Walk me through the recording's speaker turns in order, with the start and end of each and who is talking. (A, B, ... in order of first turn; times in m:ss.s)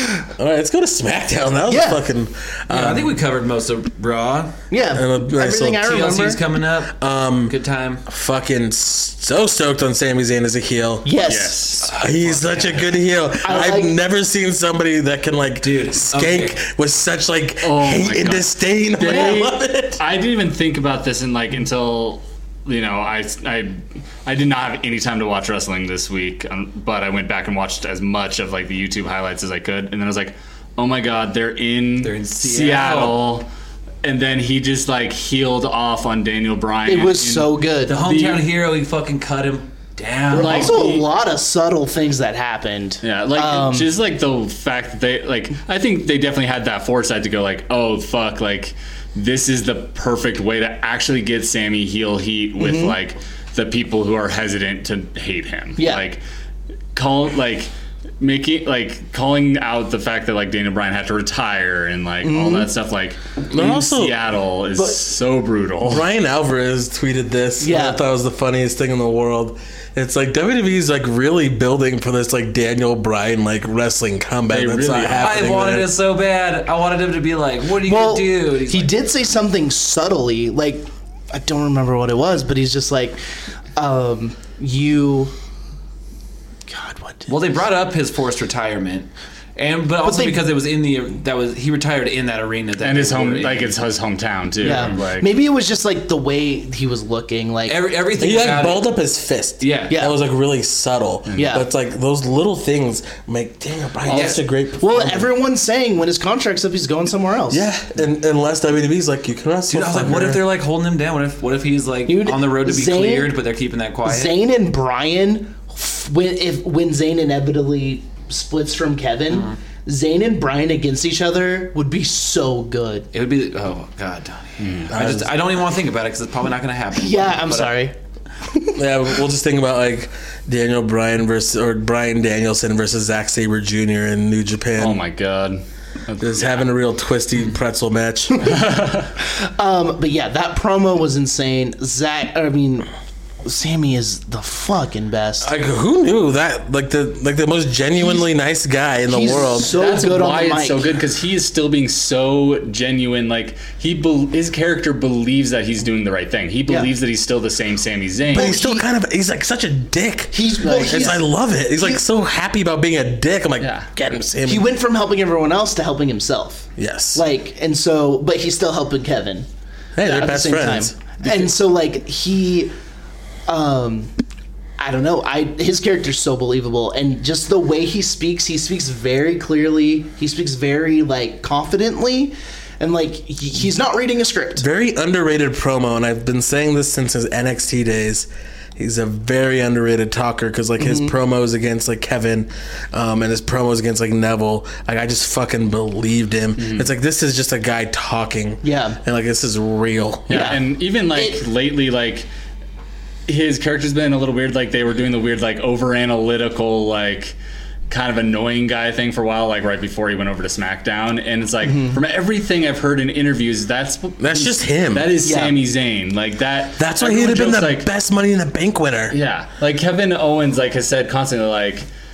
0:00.4-0:03.2 A
0:01.7-0:02.0 B
0:02.7-0:04.6 C
0:04.7-0:06.4 B
0:04.9-0:06.0 A
0:05.8-0:07.0 C
0:06.9-0:11.1 A
0:07.5-0:08.0 C
0:11.0-0:11.7 B
0:11.2-0:12.0 D
0:11.8-0:12.9 C
0:11.8-0:20.0 A
0:13.4-0:13.9 B
0:15.6-0:16.6 C
0:17.6-0:33.5 D
0:32.0-0:33.3 C
0:34.0-0:38.5 D
0:36.9-0:38.0 B
0:37.9-0:40.8 C
0:40.3-0:41.1 D
0:40.3-0:43.9 B
0:43.0-0:56.2 D
0:52.6-0:52.9 B
0:55.8-0:56.0 B
0:56.9-1:06.0 D
1:02.2-1:02.7 B
1:03.5-1:04.2 A
1:05.8-1:15.9 A
1:07.6-1:08.0 B
1:14.5-1:15.5 D
1:15.2-1:19.0 C
1:17.8-1:23.2 B
1:23.8-1:25.3 B
1:26.7-1:27.4 B
1:27.3-1:33.8 C
1:30.0-1:30.5 B
1:32.8-1:35.3 D
1:34.6-1:37.8 B
1:34.6-1:35.0 C
1:37.7-1:38.9 C
1:38.2-1:45.3 A
1:39.6-1:40.0 C
1:39.9-1:40.2 B
1:41.3-1:41.5 D
1:41.4-1:41.7 B
1:44.1-1:44.4 D
1:44.1-1:44.4 C
1:44.8-1:47.7 B
1:47.5-1:50.5 A
1:49.7-1:54.4 C
1:52.1-1:53.4 B
1:54.0-2:03.1 B
1:59.3-1:59.6 C
2:03.1-2:07.8 C
2:04.6-2:04.9 D
2:04.9-2:05.3 A
2:07.0-2:08.0 B
2:08.5-2:08.8 B
2:08.8-2:15.0 A
2:14.8-2:16.7 D
2:16.2-2:18.5 A
2:18.4-2:19.1 D
2:19.2-2:22.9 B
2:23.4-2:25.5 B
2:25.4-2:29.8 A
2:29.1-2:30.9 B
2:29.7-2:38.5 D
2:38.3-2:38.9 B
2:38.3-2:44.7 A
2:40.3-2:42.0 B
2:43.6-2:43.9 D
2:44.5-2:49.5 B
2:46.8-2:47.2 A
2:50.0-2:51.0 A
2:50.0-2:52.7 B
2:53.5-2:54.1 B
2:54.8-3:04.6 B
3:04.6-3:20.5 A
3:10.8-3:11.1 B
3:16.6-3:16.9 D
3:18.6-3:19.0 B
3:20.3-3:22.3 D
3:20.3-3:21.4 B
3:23.3-3:27.4 D
3:27.9-3:37.9 D
3:31.6-3:32.0 B
3:34.2-3:35.2 A
3:35.2-3:35.6 B
3:36.8-3:39.2 A
3:39.1-3:41.9 D